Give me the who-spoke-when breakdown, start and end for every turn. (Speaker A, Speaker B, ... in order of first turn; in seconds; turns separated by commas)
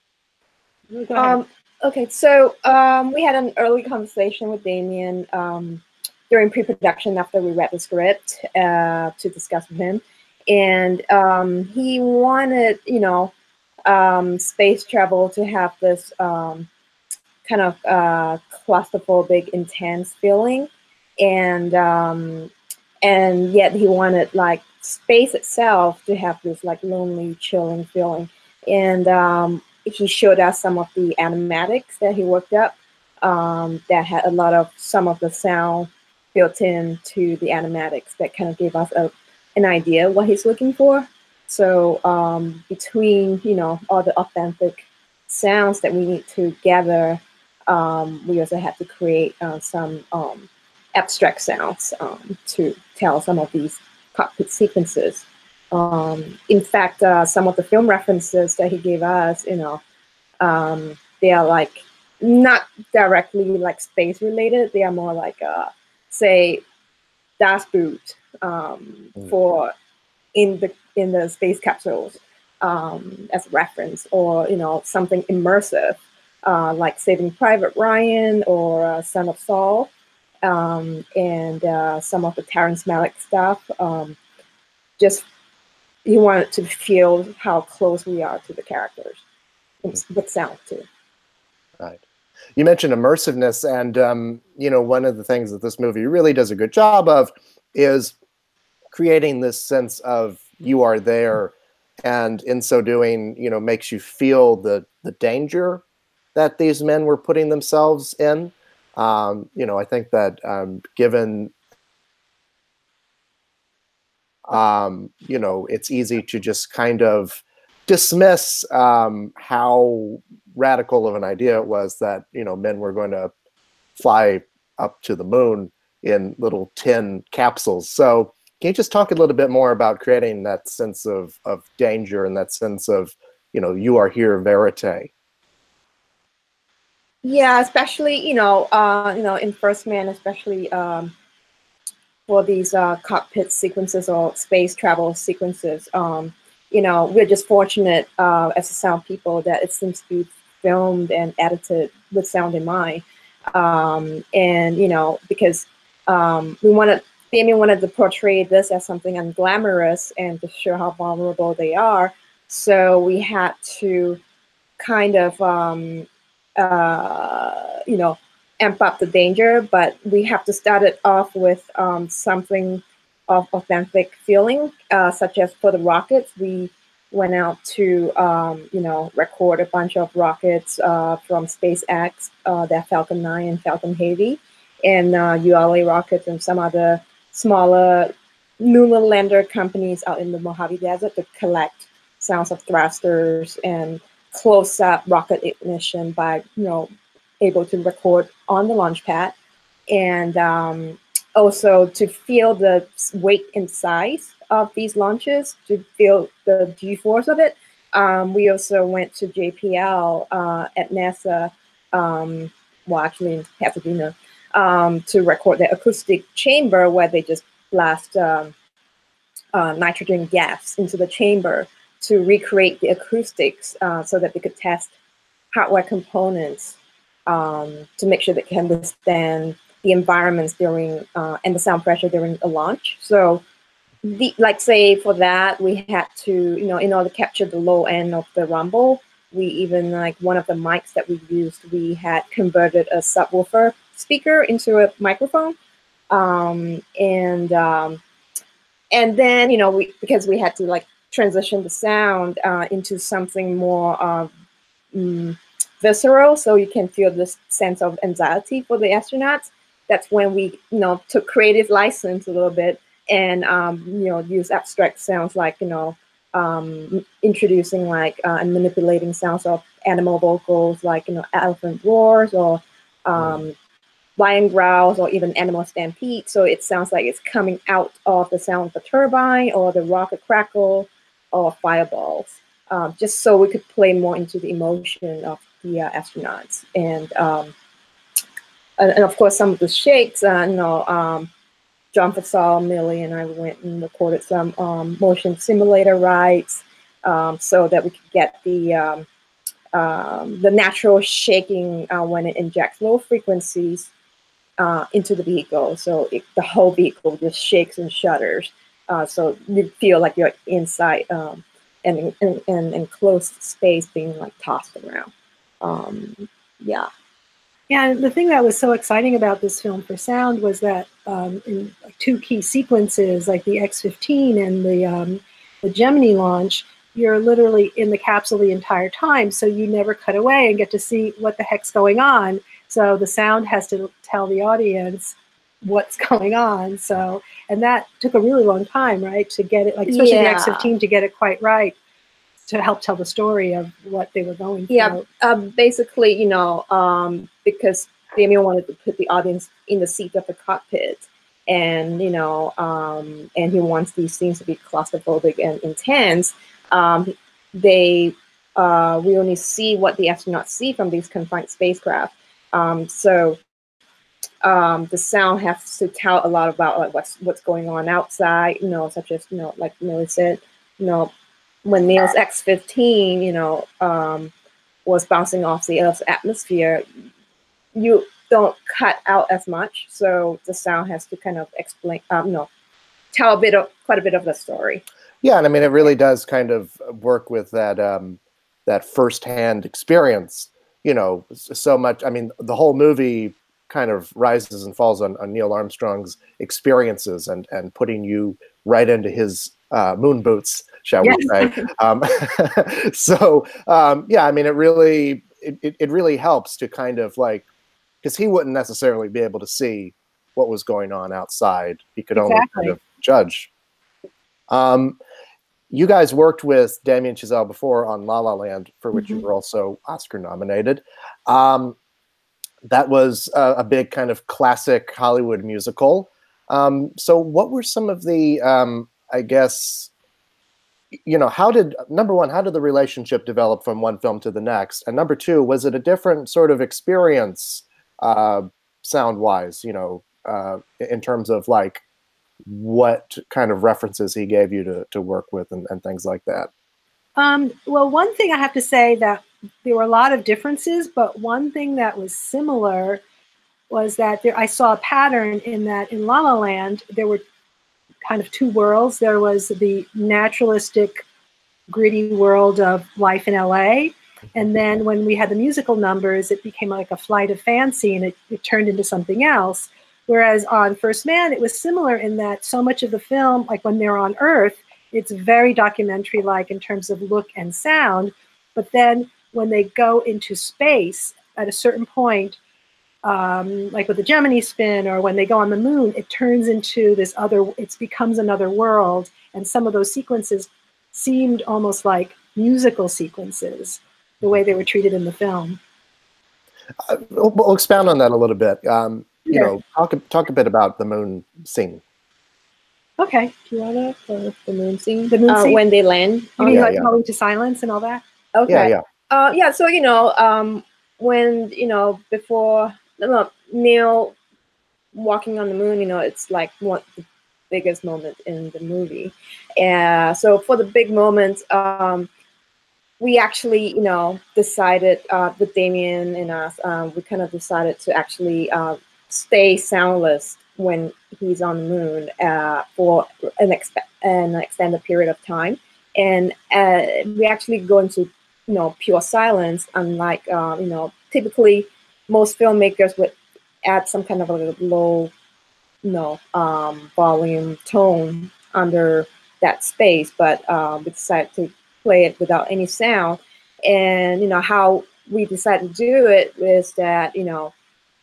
Speaker A: 0.9-1.4, Speaker B: 1.1-13.3, Speaker B: 13.8-16.7, Speaker B: 17.5-22.5, Speaker B: 23.0-59.8, Speaker B: 60.4-66.6, Speaker B: 67.4-69.7, Speaker B: 70.3-79.9, Speaker B: 80.4-84.2, Speaker B: 85.0-85.2, Speaker B: 86.0-89.2, Speaker B: 89.8-90.8, Speaker C: 92.6-98.2, Speaker C: 98.9-105.8, Speaker C: 106.3-111.5, Speaker C: 114.5-123.3, Speaker C: 124.0-135.1, Speaker B: 137.2-141.1, Speaker B: 142.3-164.2, Speaker B: 164.8-166.1, Speaker B: 166.6-196.9, Speaker B: 197.4-199.3, Speaker B: 199.9-218.5, Speaker B: 219.5-224.9, Speaker B: 225.5-226.8, Speaker B: 227.3-233.4, Speaker B: 234.0-245.6, Speaker B: 246.1-248.0, Speaker B: 248.9-254.3, Speaker B: 254.9-273.6, Speaker B: 274.2-287.5, Speaker B: 288.8-291.3, Speaker B: 291.9-299.1, Speaker B: 299.7-303.9, Speaker B: 304.6-315.1, Speaker B: 315.6-316.9, Speaker A: 317.7-341.8, Speaker B: 339.9-340.7, Speaker A: 342.5-345.0, Speaker B: 344.7-363.4, Speaker B: 364.4-371.1, Speaker B: 371.6-374.3, Speaker B: 374.9-376.8, Speaker B: 377.8-382.5, Speaker B: 383.1-384.8, Speaker C: 385.2-407.5, Speaker A: 401.0-401.3, Speaker C: 408.0-413.5, Speaker A: 412.2-412.8, Speaker C: 414.5-415.0, Speaker C: 415.7-421.8, Speaker A: 418.9-419.2, Speaker C: 422.6-429.9, Speaker C: 431.1-441.8, Speaker C: 442.5-446.5, Speaker A: 447.2-453.0, Speaker A: 453.7-457.2, Speaker A: 458.1-461.0, Speaker A: 461.7-482.4, Speaker A: 483.0-495.6, Speaker C: 496.9-501.8, Speaker A: 503.0-504.3, Speaker B: 504.4-506.7, Speaker A: 505.1-505.6, Speaker A: 506.4-508.0, Speaker C: 506.5-506.9, Speaker B: 508.4-514.1, Speaker C: 508.5-508.8, Speaker B: 514.9-517.0, Speaker B: 517.5-522.1, Speaker B: 523.0-545.1, Speaker B: 545.8-557.5